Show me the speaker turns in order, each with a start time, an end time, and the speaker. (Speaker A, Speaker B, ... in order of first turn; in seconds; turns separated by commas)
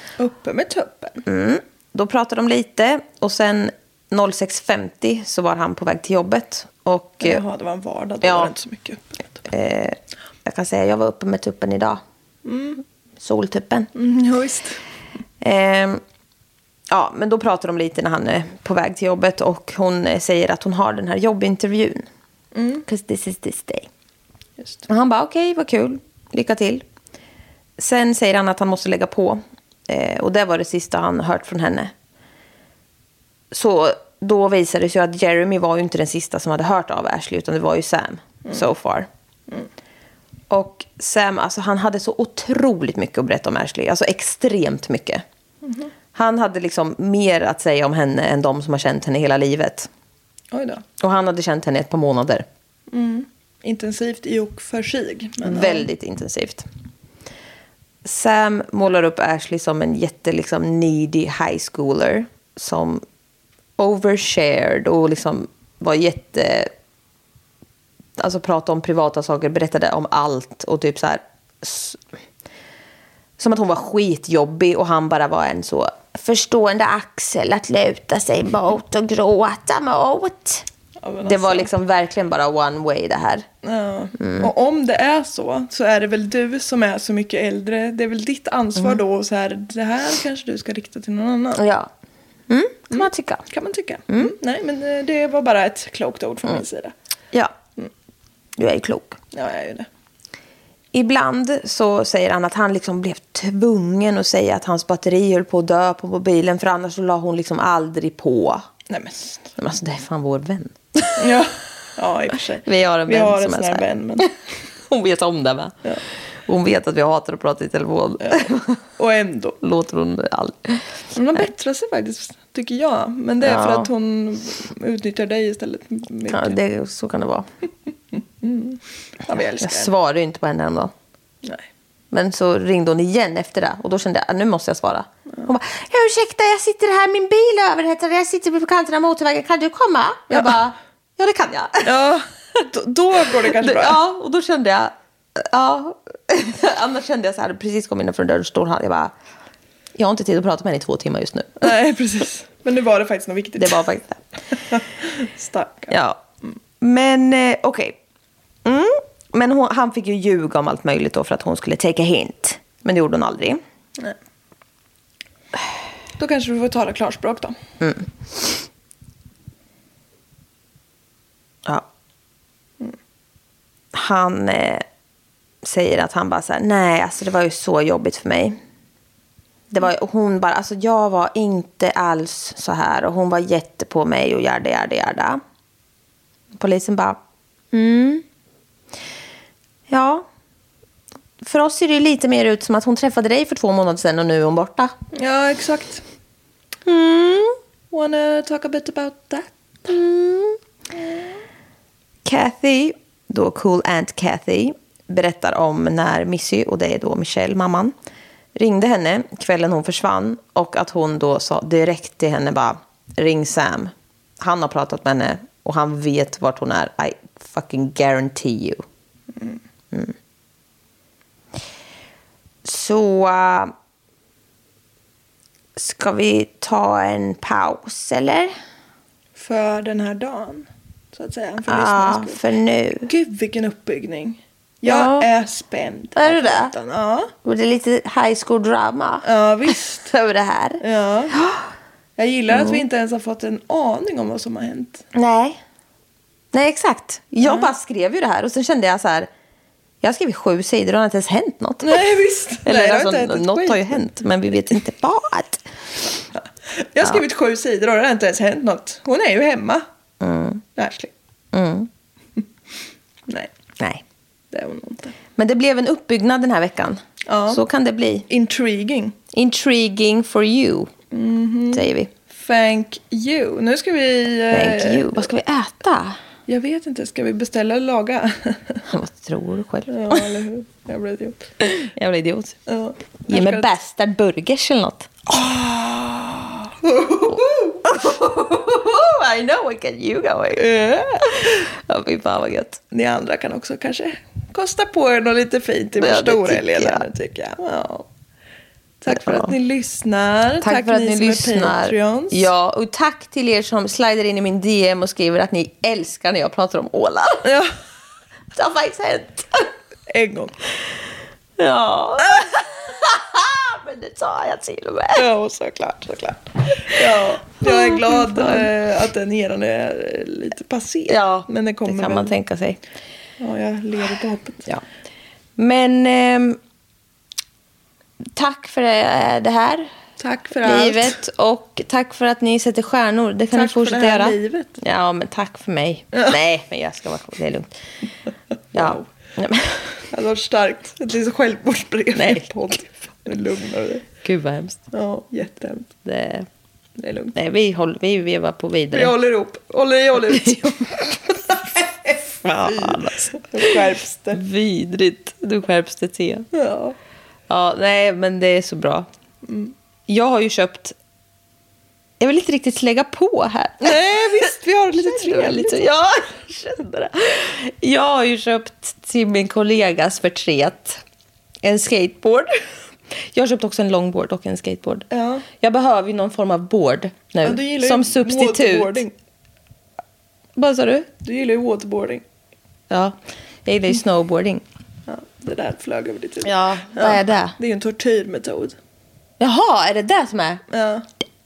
Speaker A: 0.2-1.2, Speaker B: 1.2-7.4, Speaker A: 7.2-9.4, Speaker B: 8.2-8.5, Speaker B: 9.5-12.0, Speaker A: 12.4-12.8, Speaker B: 13.2-13.9, Speaker A: 13.9-14.8, Speaker B: 15.4-16.0, Speaker B: 16.9-22.1, Speaker A: 22.5-22.9, Speaker B: 22.9-23.9, Speaker B: 24.9-26.8, Speaker B: 27.8-31.9, Speaker B: 33.5-39.1, Speaker B: 40.5-45.2, Speaker A: 45.6-45.9, Speaker B: 46.1-49.9, Speaker A: 50.5-50.8, Speaker B: 51.0-52.5, Speaker A: 52.9-55.9, Speaker B: 55.4-56.6, Speaker B: 58.0-63.0, Speaker B: 63.8-66.7, Speaker B: 68.2-72.0, Speaker B: 73.4-80.7, Speaker A: 81.0-81.7, Speaker B: 81.2-83.5, Speaker A: 83.6-91.6, Speaker B: 84.2-84.5, Speaker B: 91.6-91.9, Speaker B: 92.5-93.5, Speaker A: 92.9-96.9, Speaker B: 94.1-94.3, Speaker B: 98.6-99.2, Speaker A: 99.3-99.9, Speaker B: 100.9-108.7, Speaker A: 108.9-109.5, Speaker B: 109.6-111.3, Speaker A: 111.2-114.3, Speaker B: 112.7-114.3, Speaker B: 114.9-115.8, Speaker B: 116.5-118.8, Speaker A: 118.2-119.6, Speaker B: 119.6-120.9, Speaker A: 121.1-126.6, Speaker B: 123.4-123.9, Speaker B: 126.3-127.5, Speaker A: 128.4-129.9, Speaker B: 129.6-130.9, Speaker B: 132.1-141.9, Speaker A: 141.8-144.0, Speaker B: 143.5-149.1, Speaker B: 150.0-151.7, Speaker A: 151.6-153.8, Speaker B: 153.6-154.2, Speaker A: 154.6-155.9, Speaker B: 155.9-156.2, Speaker B: 156.8-158.0, Speaker B: 158.7-163.6, Speaker A: 166.2-167.6, Speaker B: 167.8-168.6, Speaker B: 173.9-174.8, Speaker B: 175.6-178.6, Speaker B: 179.7-185.4, Speaker B: 186.6-187.2, Speaker B: 187.7-188.2, Speaker B: 189.9-190.3, Speaker B: 191.4-194.9, Speaker A: 195.2-196.0, Speaker B: 196.9-197.6, Speaker A: 197.9-199.5, Speaker B: 199.9-200.6, Speaker A: 201.0-201.2, Speaker B: 202.2-207.9, Speaker B: 208.6-218.8, Speaker B: 222.7-223.7, Speaker B: 225.8-228.5, Speaker A: 229.4-232.4, Speaker B: 231.7-233.1, Speaker A: 233.1-237.3, Speaker B: 234.8-235.3, Speaker B: 236.2-236.7, Speaker B: 237.4-239.3, Speaker A: 239.2-240.1, Speaker B: 240.0-240.8, Speaker A: 240.8-241.4, Speaker B: 241.4-241.7, Speaker A: 242.2-245.0, Speaker B: 242.5-242.8, Speaker B: 245.1-245.6, Speaker B: 246.5-249.3, Speaker A: 247.4-247.7, Speaker B: 250.0-252.1, Speaker A: 251.8-254.1, Speaker B: 252.7-255.6, Speaker A: 256.4-259.8, Speaker B: 260.2-260.6, Speaker A: 260.8-261.1, Speaker B: 261.5-261.9, Speaker A: 264.5-265.1, Speaker B: 265.4-268.3, Speaker A: 267.3-267.6, Speaker A: 268.3-269.2, Speaker B: 269.3-270.9, Speaker A: 271.1-275.3, Speaker B: 271.7-272.1, Speaker B: 274.5-276.2, Speaker A: 276.5-278.8, Speaker B: 278.9-280.2, Speaker A: 279.9-281.4, Speaker B: 281.7-282.6, Speaker A: 282.7-283.7, Speaker B: 283.3-285.2, Speaker A: 285.3-287.9, Speaker B: 287.9-290.6, Speaker A: 290.6-291.4, Speaker B: 291.3-292.8, Speaker A: 292.9-298.1, Speaker B: 296.0-297.1, Speaker A: 299.0-302.5, Speaker B: 299.1-299.5, Speaker B: 300.6-307.5, Speaker A: 307.4-307.7, Speaker B: 308.6-309.5, Speaker A: 310.1-310.6, Speaker B: 311.6-315.3, Speaker A: 315.1-322.3, Speaker B: 317.6-318.7, Speaker B: 321.1-322.8, Speaker A: 323.4-324.6, Speaker B: 325.6-326.6, Speaker B: 328.4-329.9, Speaker A: 330.2-331.2, Speaker B: 330.6-337.7, Speaker A: 333.5-334.8, Speaker A: 338.7-339.1, Speaker B: 338.7-340.0, Speaker A: 340.1-344.1, Speaker B: 342.1-342.5, Speaker B: 344.2-344.8, Speaker A: 344.9-345.9, Speaker B: 346.1-346.5, Speaker A: 347.0-347.4, Speaker B: 347.4-349.1, Speaker A: 348.9-351.0, Speaker B: 352.4-353.7, Speaker A: 352.7-354.4, Speaker B: 354.3-356.5, Speaker A: 356.5-357.0, Speaker B: 357.5-359.1, Speaker A: 359.4-359.7, Speaker B: 360.1-360.9, Speaker B: 362.2-364.1, Speaker A: 363.8-365.9, Speaker B: 365.0-371.0, Speaker B: 371.6-372.5, Speaker B: 373.3-379.0, Speaker A: 375.1-375.4, Speaker A: 377.4-379.1, Speaker B: 380.6-381.1, Speaker A: 381.2-382.2, Speaker B: 382.9-384.6, Speaker A: 385.1-388.8, Speaker B: 386.4-387.6, Speaker B: 389.4-390.6, Speaker A: 390.7-391.1